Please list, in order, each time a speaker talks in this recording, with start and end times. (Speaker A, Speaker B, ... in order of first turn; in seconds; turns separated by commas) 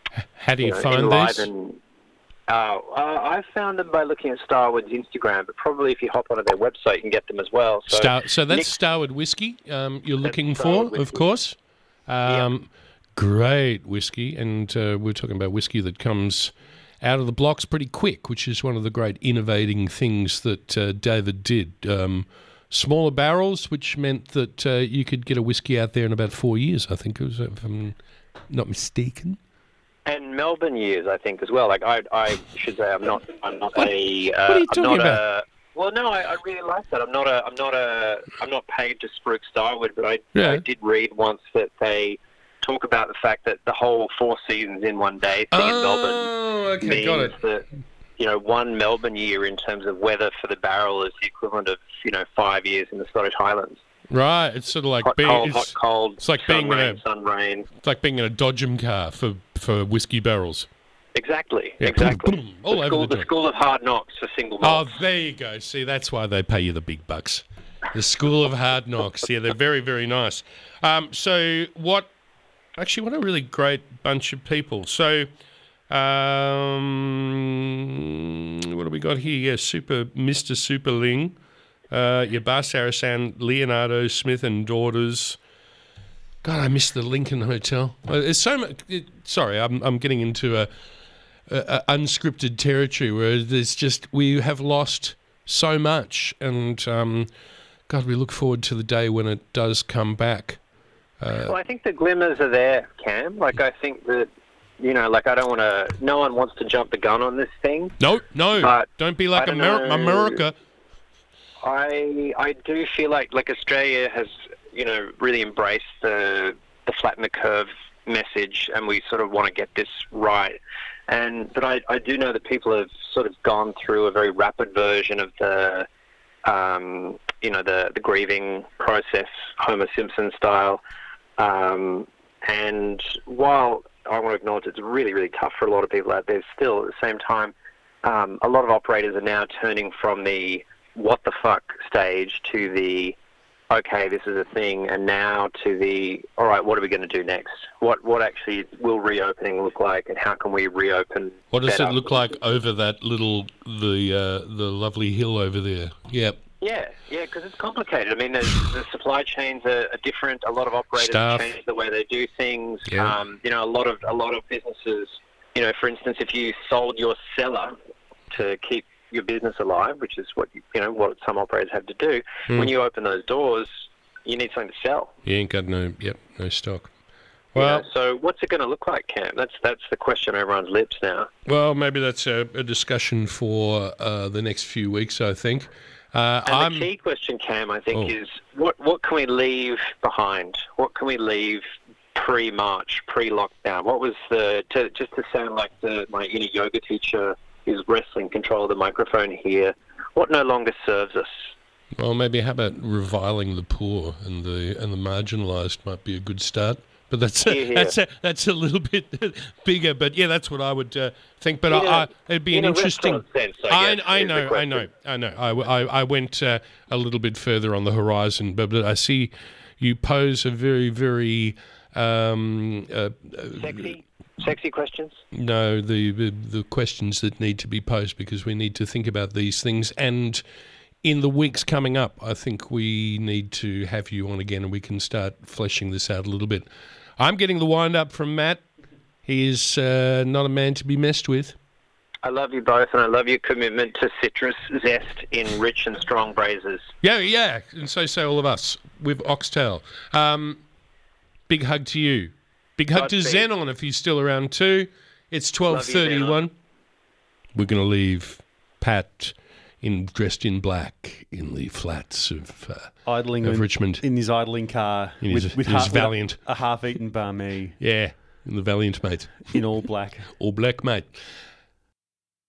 Speaker A: 0.3-1.5, Speaker B: 0.6-1.8, Speaker B: 2.5-8.7, Speaker A: 7.9-11.6, Speaker B: 10.2-11.2, Speaker A: 12.1-28.0, Speaker A: 28.5-29.4, Speaker B: 30.1-47.6, Speaker A: 34.5-35.2, Speaker A: 40.3-40.6, Speaker A: 45.5-47.4, Speaker B: 48.2-53.8, Speaker A: 54.1-57.0, Speaker B: 55.0-57.7, Speaker A: 57.8-60.7, Speaker B: 61.1-64.9, Speaker A: 61.8-63.3, Speaker A: 64.6-72.1, Speaker A: 72.8-75.3, Speaker A: 75.9-81.3, Speaker A: 81.9-85.4, Speaker A: 86.4-90.7, Speaker A: 91.5-97.3, Speaker A: 97.9-100.6, Speaker A: 101.2-101.5, Speaker B: 101.5-108.0, Speaker A: 108.0-110.5, Speaker B: 108.6-110.4, Speaker B: 111.6-120.6, Speaker B: 121.1-125.9, Speaker B: 126.4-130.8, Speaker B: 131.4-143.2, Speaker B: 143.7-152.1, Speaker A: 151.5-156.4, Speaker B: 156.6-167.8, Speaker A: 160.9-161.5, Speaker A: 162.9-163.1, Speaker B: 168.3-175.1, Speaker A: 175.2-176.9, Speaker A: 177.5-177.8, Speaker B: 177.5-181.3, Speaker A: 181.4-186.9, Speaker B: 186.5-191.6, Speaker B: 192.1-201.3, Speaker A: 201.9-223.9, Speaker B: 207.4-207.9, Speaker B: 211.7-214.8, Speaker B: 223.6-225.2, Speaker A: 225.3-230.4, Speaker A: 231.0-238.6, Speaker A: 239.2-241.6, Speaker B: 242.2-246.8, Speaker A: 247.0-250.6, Speaker A: 251.5-256.5, Speaker B: 252.9-253.5, Speaker B: 255.7-256.4, Speaker A: 257.5-264.0, Speaker C: 263.1-267.8, Speaker A: 265.2-266.4, Speaker A: 267.8-269.6, Speaker C: 269.5-270.3, Speaker A: 270.3-271.2